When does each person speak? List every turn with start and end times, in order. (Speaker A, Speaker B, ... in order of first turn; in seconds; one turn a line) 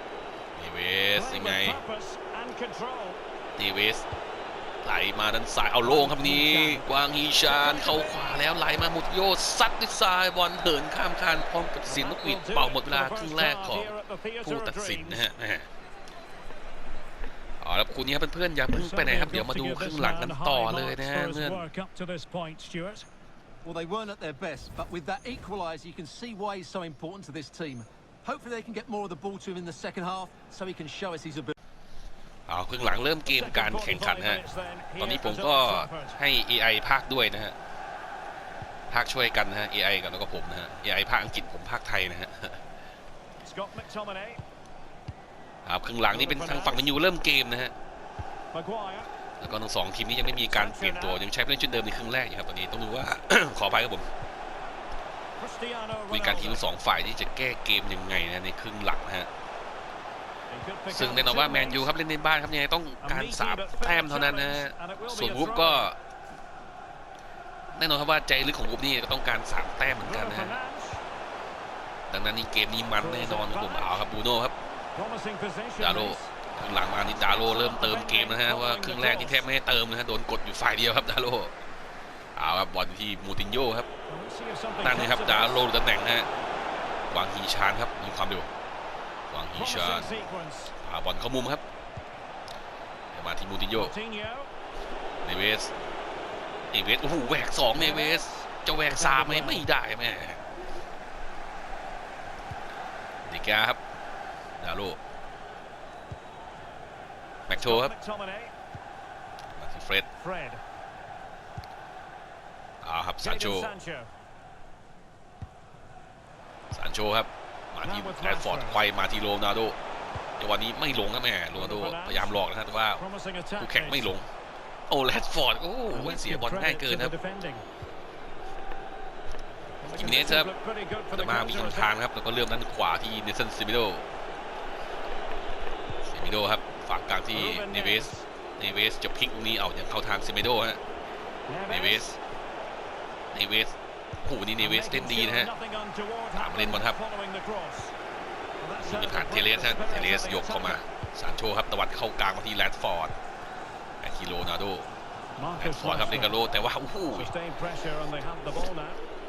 Speaker A: 0.5-1.8
Speaker B: 1.1-3.2
Speaker A: 3.5-4.1
Speaker A: 4.8-13.9
Speaker B: 5.8-6.9
Speaker B: 7.4-8.2
Speaker B: 11.9-15.3
Speaker A: 14.4-15.7
Speaker A: 17.6-21.6
Speaker B: 18.7-23.1
Speaker C: 23.6-31.5
Speaker A: 32.5-34.4
Speaker B: 33.2-36.2
Speaker A: 35.0-37.5
Speaker A: 38.9-42.6
Speaker B: 43.4-44.4
Speaker A: 45.6-47.7
Speaker B: 46.1-46.9
Speaker B: 48.5-49.1
Speaker A: 49.4-54.1
Speaker B: 50.5-51.2
Speaker B: 55.4-56.8
Speaker A: 56.1-59.3
Speaker B: 60.5-61.9
Speaker A: 60.9-66.0
Speaker B: 63.0-65.9
Speaker A: 67.7-70.5
Speaker B: 70.0-71.0
Speaker A: 72.1-74.5
Speaker B: 73.0-74.1
Speaker B: 74.9-76.3
Speaker A: 75.8-81.5
Speaker B: 77.2-79.5
Speaker A: 82.3-83.9
Speaker B: 84.1-85.7
Speaker A: 84.8-86.3
Speaker A: 87.1-88.5
Speaker A: 89.3-90.2
Speaker B: 89.5-90.7
Speaker A: 90.8-91.6
Speaker A: 93.1-93.9
Speaker B: 93.7-94.5
Speaker A: 95.2-95.7
Speaker A: 96.7-100.4
Speaker B: 97.7-99.7
Speaker A: 103.2-103.8
Speaker A: 104.6-105.0
Speaker A: 107.5-107.9
Speaker B: 107.6-108.5
Speaker A: 109.5-110.1
Speaker B: 110.2-110.6
Speaker A: 112.8-113.8
Speaker B: 113.2-114.1
Speaker A: 116.7-119.8
Speaker B: 117.8-118.8
Speaker A: 120.4-123.0
Speaker B: 121.5-122.4
Speaker B: 123.0-124.1
Speaker A: 123.6-124.3
Speaker A: 124.9-127.1
Speaker B: 125.9-127.6
Speaker B: 129.8-131.9
Speaker A: 129.9-130.5
Speaker A: 131.1-134.1
Speaker A: 136.1-140.8
Speaker B: 137.3-138.2
Speaker B: 141.5-142.2
Speaker A: 141.7-142.1
Speaker A: 143.3-145.5
Speaker B: 144.6-147.9
Speaker A: 146.3-147.0
Speaker B: 148.6-150.8
Speaker A: 148.8-153.1
Speaker A: 154.0-154.9
Speaker B: 155.4-156.4
Speaker A: 155.6-157.3
Speaker B: 157.1-159.0